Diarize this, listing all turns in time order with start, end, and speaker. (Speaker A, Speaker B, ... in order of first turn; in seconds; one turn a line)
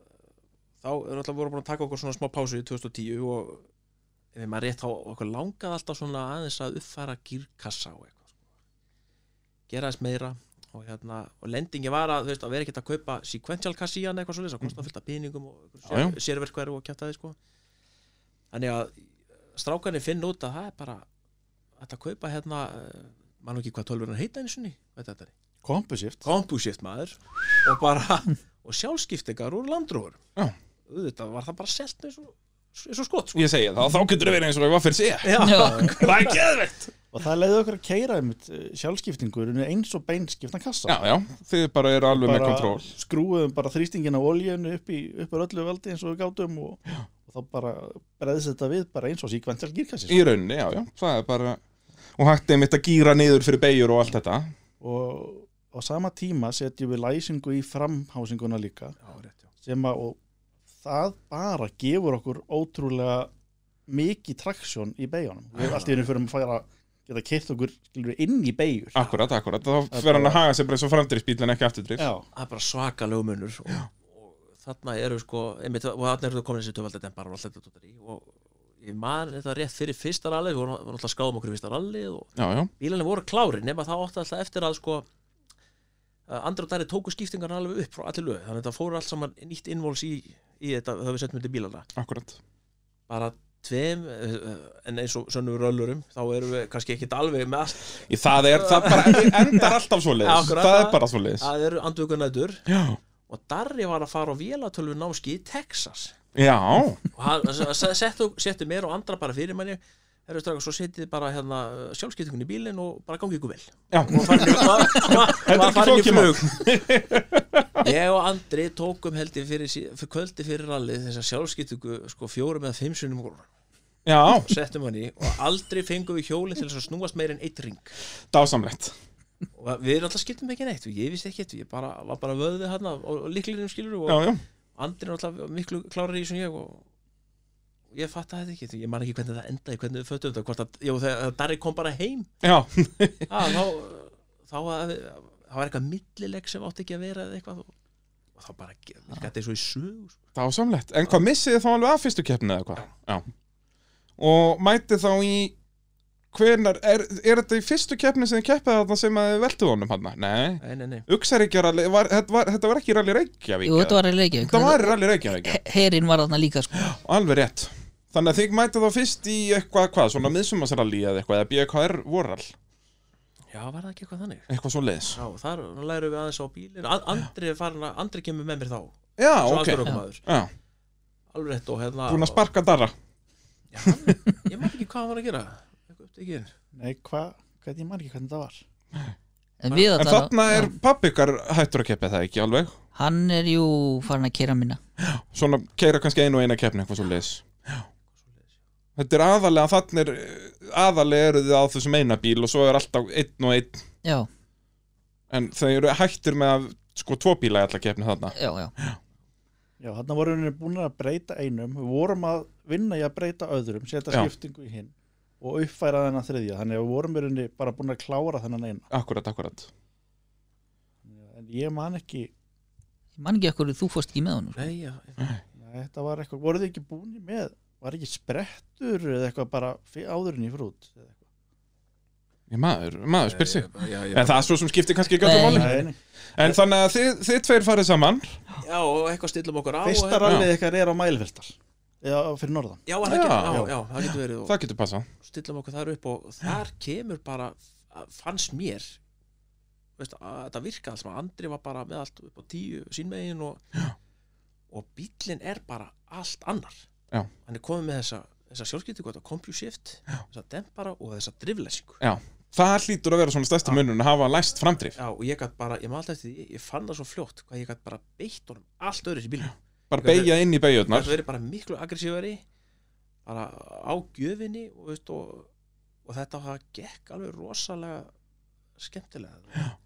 Speaker A: 0.8-3.6
Speaker A: 4.3-8.3
Speaker A: 9.7-17.4
Speaker B: 15.9-16.2
Speaker A: 18.5-21.1
Speaker A: 21.8-25.3
Speaker C: 25.6-26.3
Speaker A: 26.2-30.2
Speaker A: 30.9-33.4
Speaker B: 33.3-36.9
Speaker A: 35.2-36.5
Speaker D: 35.4-35.9
Speaker C: 37.1-41.0
Speaker B: 40.9-42.9
Speaker C: 42.1-50.2
Speaker B: 50.1-51.6
Speaker B: 52.2-54.5
Speaker C: 54.8-59.0
Speaker A: 59.0-59.5
Speaker C: 59.6-60.2
Speaker C: 60.8-63.3
Speaker C: 63.9-68.9
Speaker A: 65.6-66.0
Speaker B: 68.9-72.1
Speaker C: 69.9-70.4
Speaker C: 72.0-72.2
Speaker A: 72.3-85.0
Speaker B: 82.4-82.7
Speaker A: 86.3-91.9
Speaker B: 92.0-92.4
Speaker A: 93.1-102.6
Speaker B: 98.1-101.5
Speaker B: 102.7-103.0
Speaker A: 103.3-106.2
Speaker B: 106.3-107.0
Speaker A: 107.1-116.6
Speaker B: 113.9-117.9
Speaker A: 117.8-123.5
Speaker B: 124.0-124.5
Speaker A: 124.3-127.9
Speaker B: 128.3-128.9
Speaker A: 129.5-134.2
Speaker B: 134.1-134.4
Speaker A: 134.8-136.8
Speaker A: 137.9-142.3
Speaker B: 142.4-143.5
Speaker A: 143.3-147.7
Speaker A: 148.3-150.2
Speaker B: 150.3-153.2
Speaker B: 154.2-155.5
Speaker B: 156.3-165.6
Speaker A: 160.6-161.1
Speaker D: 163.6-166.9
Speaker B: 166.8-172.5
Speaker A: 173.5-174.5
Speaker B: 174.5-175.2
Speaker A: 175.1-180.2
Speaker B: 179.2-180.5
Speaker A: 181.3-182.4
Speaker B: 182.1-182.9
Speaker A: 183.7-186.5
Speaker C: 186.7-188.6
Speaker D: 189.6-190.7
Speaker B: 189.7-192.7
Speaker D: 192.9-194.8
Speaker B: 195.0-197.8
Speaker B: 198.9-203.8
Speaker D: 204.0-204.3
Speaker B: 205.3-209.0
Speaker D: 208.3-208.7
Speaker C: 209.8-218.9
Speaker B: 218.9-219.7
Speaker C: 221.0-222.3
Speaker D: 223.2-224.7
Speaker A: 224.6-225.2
Speaker C: 225.6-231.2
Speaker B: 232.5-235.8
Speaker A: 233.2-234.5
Speaker D: 235.2-235.8
Speaker C: 235.4-235.9
Speaker B: 236.3-238.4
Speaker A: 238.6-240.4
Speaker C: 239.8-242.8
Speaker A: 242.8-244.5
Speaker B: 243.0-245.1
Speaker C: 243.4-243.7
Speaker A: 245.2-249.0
Speaker A: 250.0-253.6
Speaker A: 254.7-256.8
Speaker A: 257.4-262.0
Speaker B: 262.0-264.9
Speaker A: 264.9-270.3
Speaker B: 269.9-271.1
Speaker A: 270.9-272.4
Speaker A: 273.2-275.5
Speaker A: 276.0-278.1
Speaker A: 278.8-279.6